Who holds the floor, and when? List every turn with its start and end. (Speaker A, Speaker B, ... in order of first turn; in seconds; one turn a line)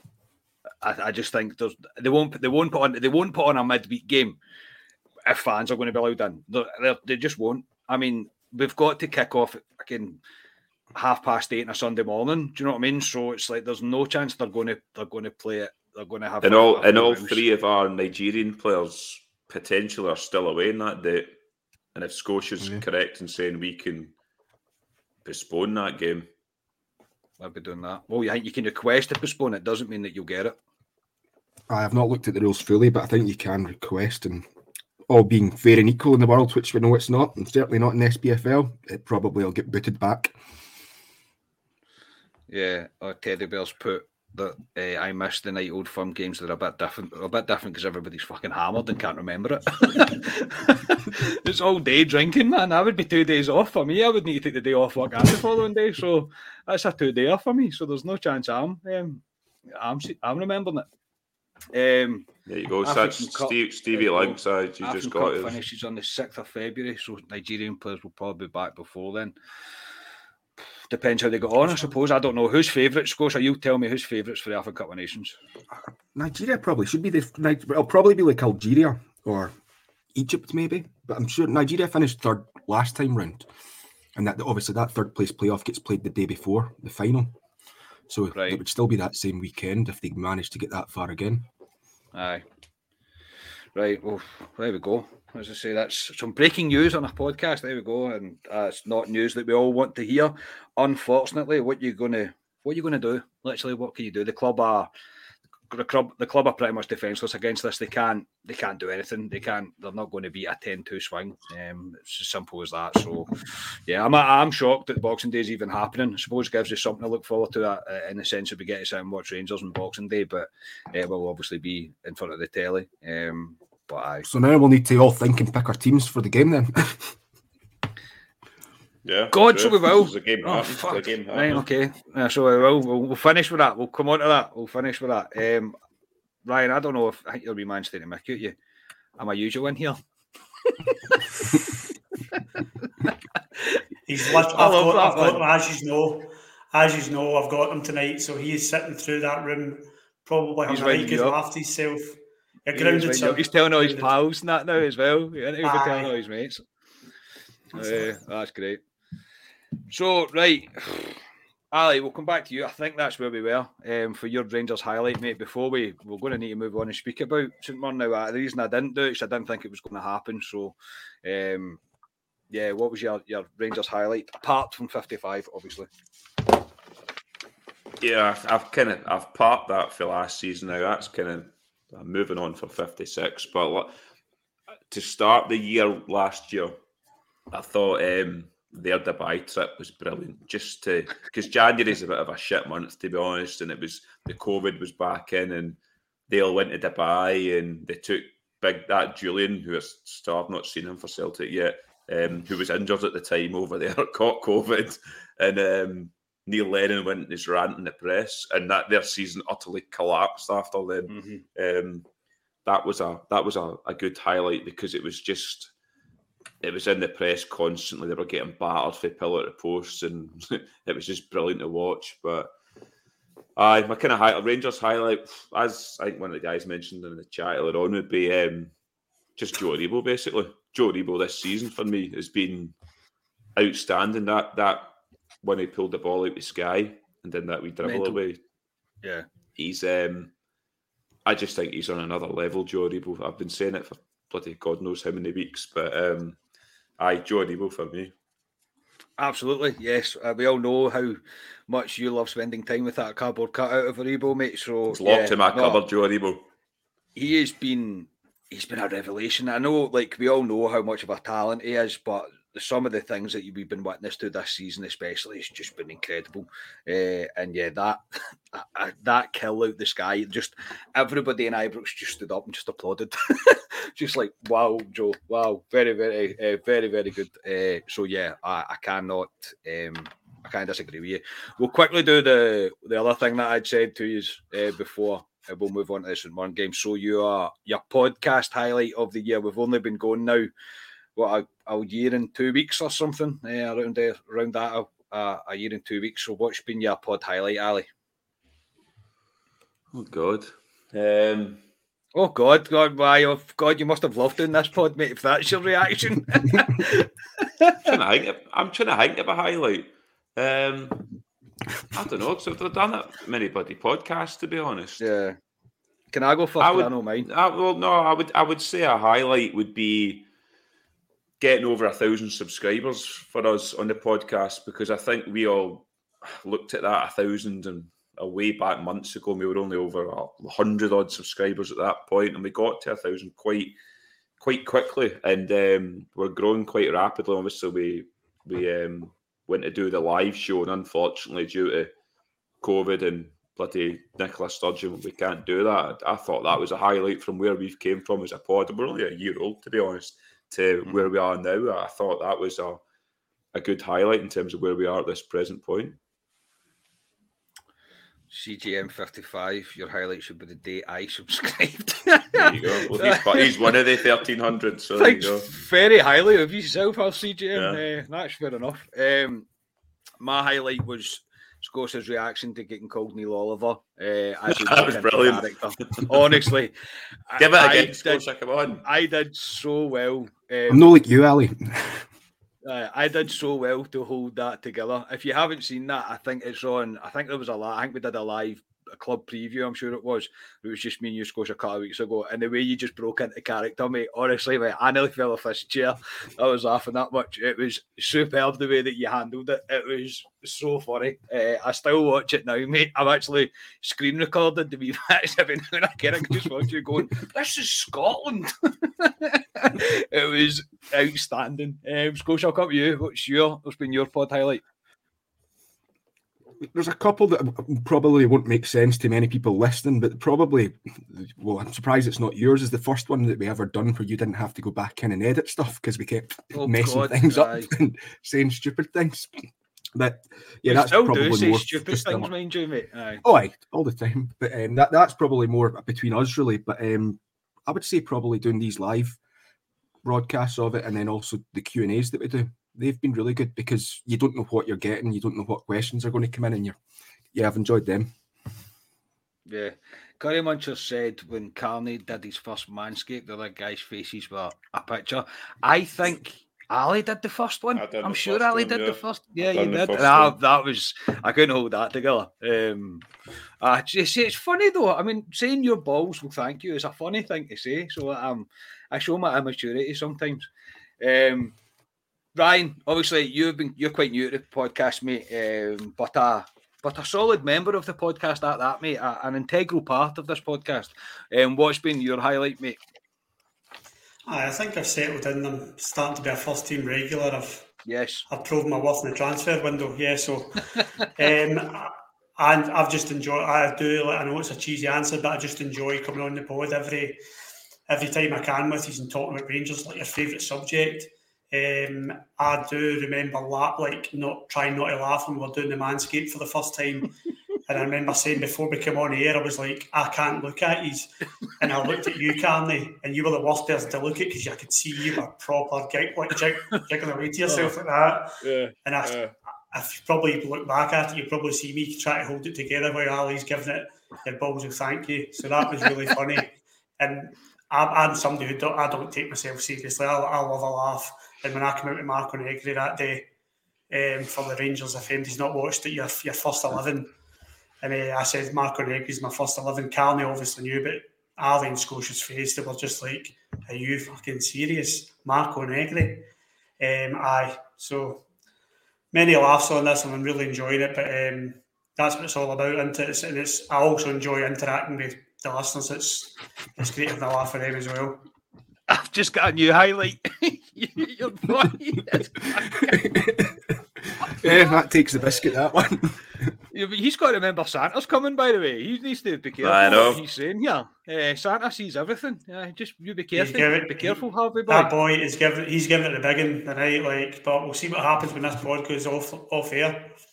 Speaker A: 0.8-4.4
Speaker A: 5.2-10.2
Speaker A: 10.9-17.4
Speaker B: 16.4-21.3
Speaker B: 21.9-24.1
Speaker B: 25.2-26.3
Speaker A: 27.4-30.6
Speaker C: 31.7-34.5
Speaker C: 35.1-40.4
Speaker A: 42.5-60.9
Speaker A: 61.7-62.3
Speaker B: 62.5-65.6
Speaker A: 62.8-69.3
Speaker A: 70.9-75.4
Speaker C: 75.7-79.5
Speaker C: 80.1-83.5
Speaker C: 84.2-87.3
Speaker C: 88.1-91.5
Speaker A: 88.3-88.6
Speaker A: 92.1-92.4
Speaker A: 93.7-104.9
Speaker A: 105.7-113.3
Speaker A: 113.9-124.2
Speaker C: 124.2-127.1
Speaker B: 129.0-131.7
Speaker A: 129.3-135.8
Speaker A: 136.4-138.5
Speaker A: 139.2-140.0
Speaker A: 140.7-141.7
Speaker D: 144.1-154.1
Speaker A: 144.5-145.4
Speaker A: 150.7-151.4
Speaker A: 152.7-156.6
Speaker D: 155.6-156.1
Speaker D: 157.7-158.1
Speaker A: 157.7-158.8
Speaker A: 159.9-161.2
Speaker A: 161.7-171.8
Speaker A: 172.5-175.9
Speaker B: 178.0-183.9
Speaker B: 184.9-186.8
Speaker B: 187.5-195.8
Speaker B: 196.3-212.1
Speaker A: 211.1-211.4
Speaker B: 212.6-215.7
Speaker B: 216.6-222.5
Speaker B: 223.6-228.7
Speaker B: 229.3-232.7
Speaker B: 233.6-238.4
Speaker A: 237.8-238.2
Speaker B: 239.6-240.3
Speaker B: 241.2-246.4
Speaker B: 247.0-248.1
Speaker A: 249.2-255.8
Speaker B: 254.9-256.4
Speaker A: 257.1-290.5
Speaker A: 291.1-297.9
Speaker B: 299.9-301.6
Speaker A: 302.1-307.9
Speaker B: 307.9-311.0
Speaker B: 311.9-315.0
Speaker A: 315.0-315.4
Speaker A: 316.1-317.3
Speaker B: 316.6-320.3
Speaker B: 321.4-333.7
Speaker B: 334.4-341.9
Speaker B: 342.6-352.8
Speaker B: 353.5-356.0
Speaker A: 358.3-363.7
Speaker B: 362.3-365.5
Speaker A: 365.0-369.4
Speaker B: 367.5-367.8
Speaker A: 370.2-376.7
Speaker B: 374.5-376.5
Speaker A: 377.3-378.2
Speaker B: 377.4-378.9
Speaker A: 378.8-380.9
Speaker C: 380.7-382.1
Speaker A: 382.6-414.6
Speaker C: 416.6-429.3
Speaker A: 426.5-427.7
Speaker C: 429.9-432.3
Speaker A: 430.6-433.2
Speaker C: 433.2-439.2
Speaker C: 440.0-446.8
Speaker C: 447.3-448.1
Speaker A: 449.5-463.1
Speaker B: 457.7-460.4
Speaker A: 463.6-470.5
Speaker A: 471.0-471.5
Speaker A: 472.3-482.8
Speaker D: 484.3-487.7
Speaker A: 487.8-488.2
Speaker D: 488.3-497.2
Speaker D: 497.9-507.1
Speaker D: 507.6-519.2
Speaker A: 517.5-517.7
Speaker A: 518.4-519.3
Speaker D: 519.7-533.3
Speaker D: 533.9-537.1
Speaker D: 537.8-546.3
Speaker D: 546.8-548.2
Speaker D: 549.1-558.2
Speaker A: 558.9-563.3
Speaker C: 562.9-563.5
Speaker C: 564.2-566.5
Speaker A: 566.7-574.9
Speaker B: 569.6-570.2
Speaker D: 573.3-580.1